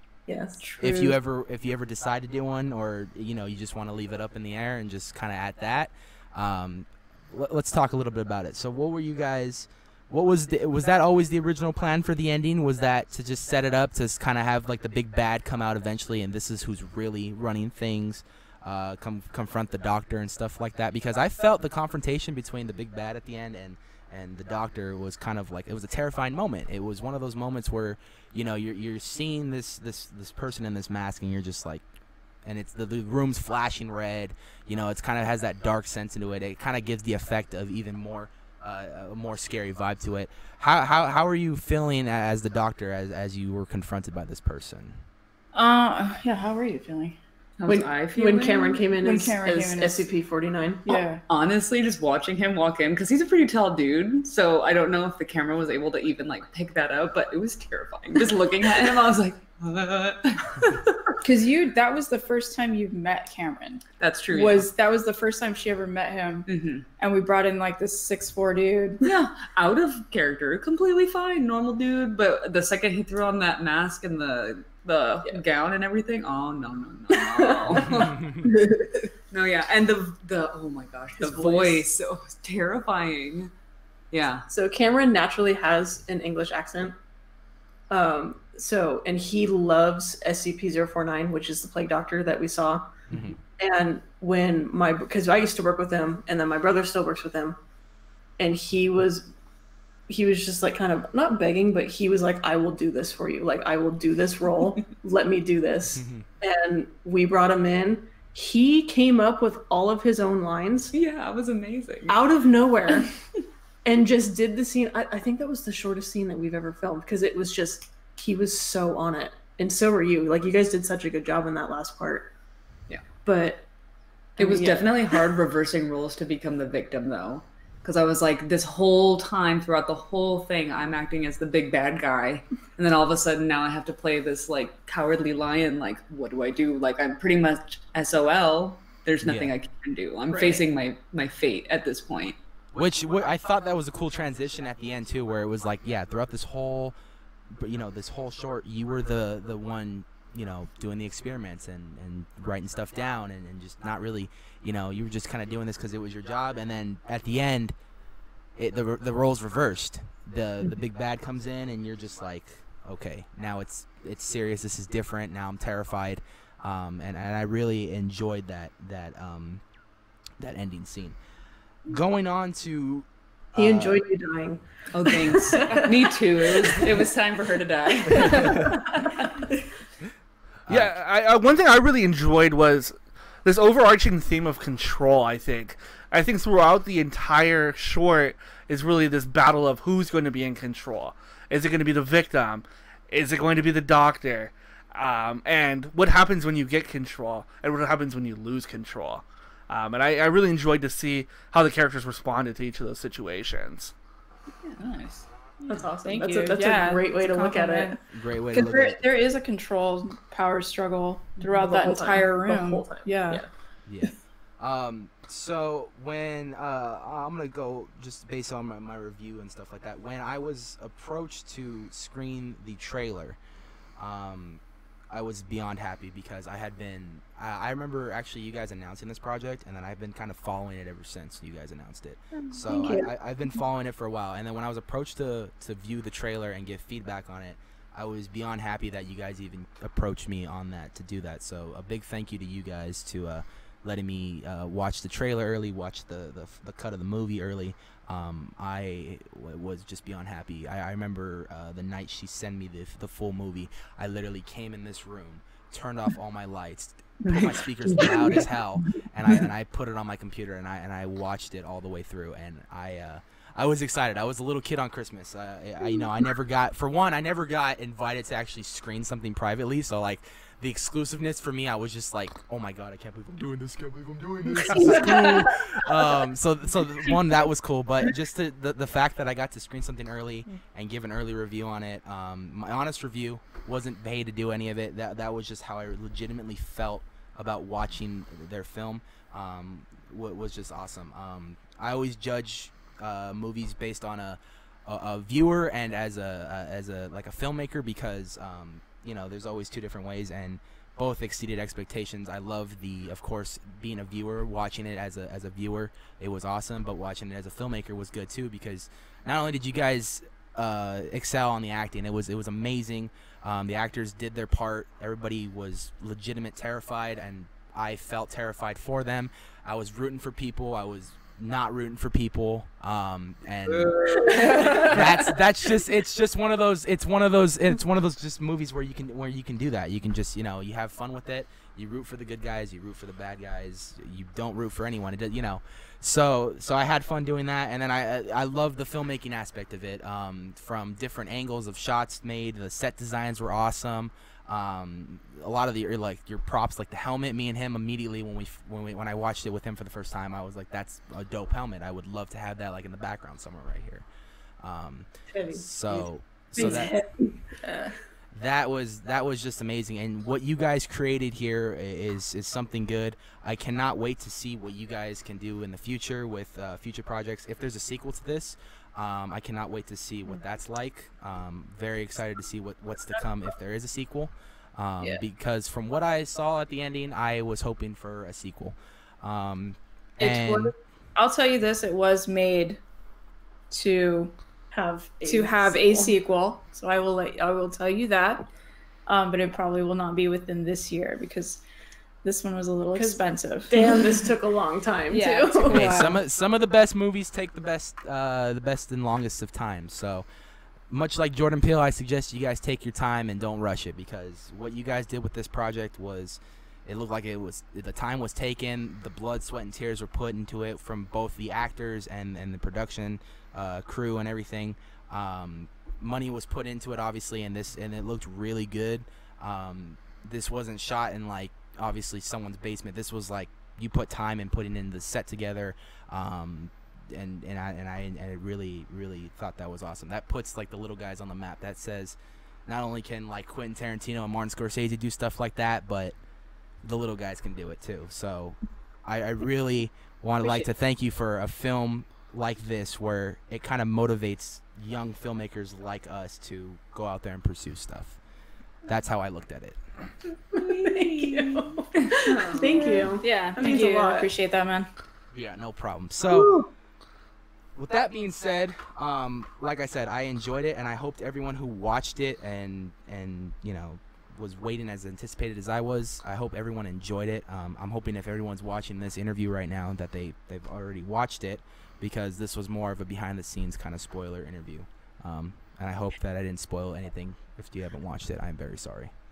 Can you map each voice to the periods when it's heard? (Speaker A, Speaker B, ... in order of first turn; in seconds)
Speaker A: 0.3-0.6, 47.7-51.0, 77.1-79.0, 81.2-81.8, 84.5-87.0, 87.9-92.9, 93.6-97.6, 98.4-99.3, 100.1-110.9, 112.1-113.1, 113.8-122.3, 123.2-123.7, 124.3-125.3, 140.3-140.6, 173.6-177.1, 178.1-178.9, 205.7-208.0, 211.4-213.5, 232.5-233.0, 324.5-324.9, 355.3-357.9, 384.7-386.1, 392.9-396.0, 450.6-454.3
Speaker B: 0.6-1.2, 45.5-47.2, 49.0-50.0, 50.9-51.2, 61.2-66.5, 67.0-69.0, 204.6-205.3, 206.0-208.0, 208.5-213.4, 232.7-233.1, 274.8-275.4, 356.6-357.0, 380.2-382.8, 383.7-384.3, 385.2-388.4, 389.1-391.6, 392.2-393.9, 395.1-396.1, 451.0-451.3, 452.0-454.9, 456.3-456.7
Speaker C: 0.8-31.8, 32.4-45.0, 93.1-93.3, 105.9-106.2, 139.2-139.5, 142.7-146.9, 147.5-157.7, 158.6-169.6, 170.4-171.2, 171.8-174.0, 178.4-178.7, 180.7-180.9, 208.1-209.0, 213.9-223.4, 224.0-354.1, 354.6-356.9, 358.3-380.7, 395.7-400.2, 400.9-436.1, 436.8-448.2, 448.8-449.8, 455.3-456.5, 457.8-479.1
Speaker D: 47.6-48.8, 51.3-61.0, 64.0-64.7, 66.5-66.8, 69.0-78.5, 79.3-83.5, 84.1-84.5, 110.9-112.2, 124.4-142.4, 174.9-179.4, 257.2-258.5, 323.7-325.2, 450.6-451.6, 452.2-453.1
Speaker E: 180.7-203.9